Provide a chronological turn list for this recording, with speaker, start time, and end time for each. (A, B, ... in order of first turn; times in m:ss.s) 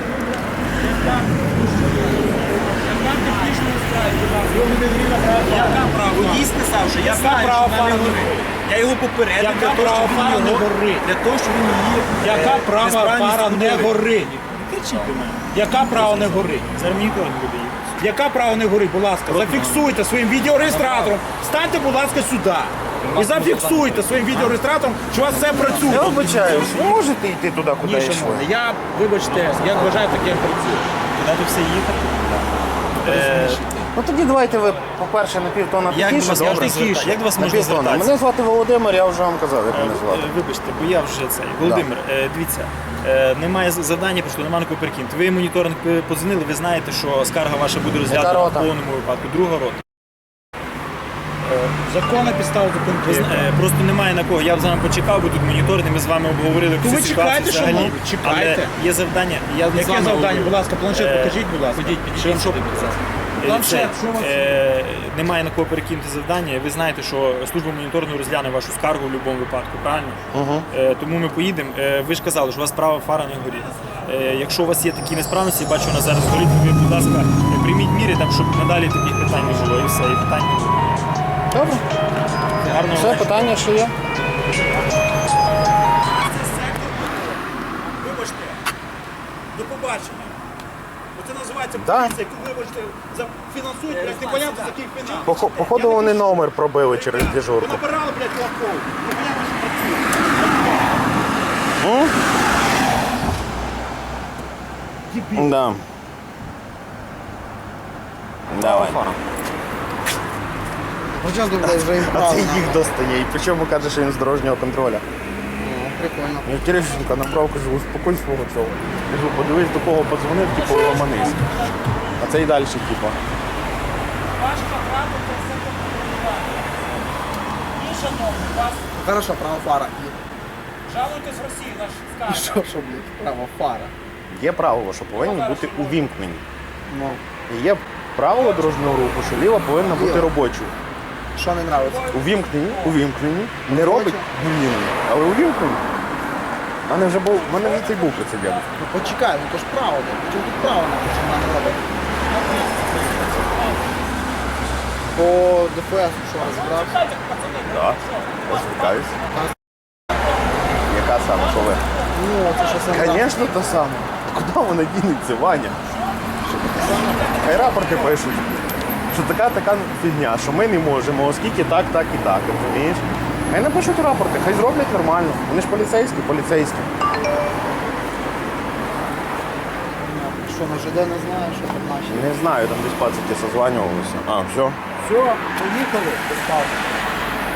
0:00.8-0:08.5 A
0:01.0-0:02.3 B
0:03.1-0:03.6 B
0:04.5-0:17.9 B
0:09.4-0:11.1 A
0:12.2-0:14.3 A
0:15.5-0:16.7 A
0:18.0-0:27.0 A
0:19.3-0:19.9 B
0:20.6-0:21.2 B
0:23.0-0:24.6 B
0:25.3-0:26.0 C
0:25.8-0:28.5 D
0:27.8-0:30.9 A
0:29.2-0:30.3 B
0:31.1-0:33.6 B
0:33.0-0:33.9 A
0:33.9-0:40.3 D
0:35.9-0:38.2 B
0:36.3-0:37.2 A
0:39.7-0:49.8 B
0:41.6-0:41.9 D
0:48.0-0:48.7 D
0:51.4-0:51.8 B
0:51.8-0:53.5 A
0:53.0-1:10.2 B
0:56.8-0:58.7 A
0:57.6-0:57.9 D
0:59.7-1:02.8 A
1:03.4-1:04.6 A
1:10.3-1:10.7 D
1:10.7-1:20.9 B
1:13.6-1:14.0 A
1:21.5-1:21.8 D
1:22.6-1:23.5 B
1:22.9-1:23.9 D
1:26.2-1:28.6 A
1:29.5-1:30.4 A
1:31.1-1:41.0 A
1:31.8-1:32.2 D
1:33.9-1:35.8 B
1:35.3-1:37.8 D
1:41.8-1:42.2 D
1:45.1-1:45.6 A
1:45.4-1:45.8 D
1:48.5-1:49.1 D
1:48.6-1:49.1 C
1:51.1-1:52.8 C
1:51.6-1:55.0 D
1:55.6-1:56.7 C
1:56.4-2:01.5 D
2:00.5-2:02.2 A
2:02.2-2:03.2 D
2:04.3-2:06.9 A
2:07.8-2:09.0 A
2:09.0-2:10.2 C
2:10.8-2:12.7 A
2:12.3-2:13.9 C
2:14.3-2:16.4 D
2:15.2-2:16.1 A
2:16.9-2:17.2 C
2:17.5-2:20.8 D
2:18.3-2:19.9 A
2:19.9-2:20.3 C
2:21.3-2:22.1 C
2:21.7-2:23.0 A
2:22.1-2:25.8 D
2:23.7-2:24.3 C
2:26.9-2:28.7 D
2:27.3-2:29.2 A
2:28.8-2:31.9 C
2:32.3-2:32.9 A
2:32.9-2:33.6 D
2:33.5-2:33.8 A
2:35.1-2:37.0 C
2:36.4-2:39.3 A
2:37.7-2:39.2 D
2:40.9-2:41.9 D
2:41.6-2:43.0 A
2:42.1-2:43.4 C
2:42.9-2:45.8 D
2:46.7-2:48.3 A
2:47.2-2:56.9 D
3:00.0-3:02.4 C
3:02.1-3:04.8 D
3:05.0-3:07.0 A